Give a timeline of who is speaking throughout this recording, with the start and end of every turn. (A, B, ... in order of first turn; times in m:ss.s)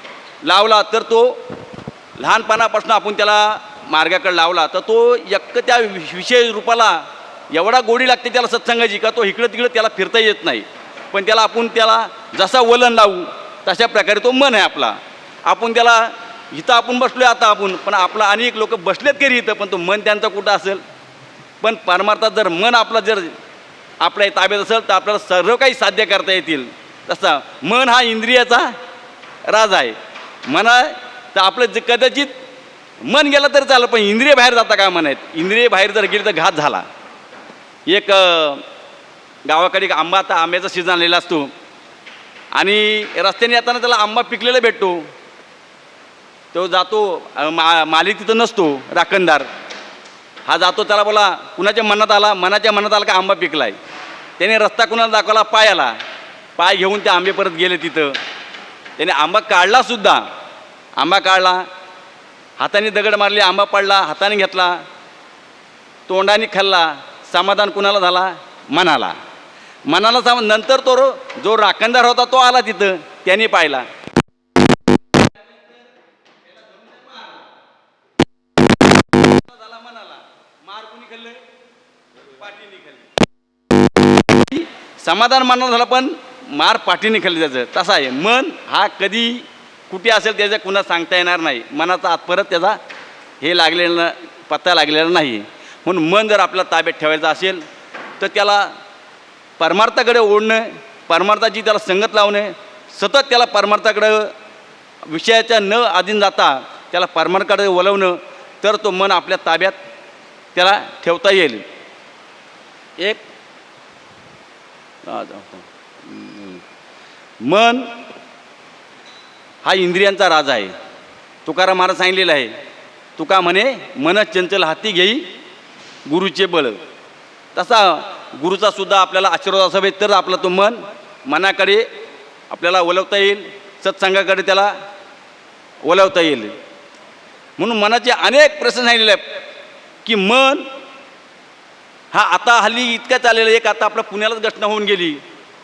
0:00.4-0:01.4 A
0:02.2-0:20.8 A
0:21.6-0:23.3 A
0:24.0-0:28.7 A
0:29.4-0:32.3 A
0:33.0-0:36.8 A
0:37.9-0:38.6 A
0:39.4-0:41.5 A
0:42.5-0:45.1 A
0:46.5-0:49.5 A
0:50.4-0:53.8 A
0:54.4-0:56.0 A
0:56.6-0:58.2 A
0:59.0-1:00.2 A
1:01.0-1:01.6 A
1:02.6-1:04.8 A
1:06.1-1:09.2 A
1:09.9-1:13.9 A
1:16.5-1:17.4 A
1:19.2-1:21.4 A
1:22.4-1:23.1 A
1:24.2-1:32.8 A
1:33.4-1:37.6 A
1:38.2-1:38.7 A
1:39.6-1:44.3 A
1:45.0-1:49.8 A
1:50.5-1:51.6 A
1:55.0-1:56.6 A
1:57.4-1:57.9 A
1:59.6-2:00.7 A
2:01.4-2:02.5 A
2:03.2-2:05.3 A
2:06.0-2:06.8 A
2:07.5-2:11.9 A
2:12.5-2:14.7 A
2:15.8-2:16.5 A
2:17.6-2:19.4 A
2:20.0-2:20.6 A
2:22.1-2:25.2 A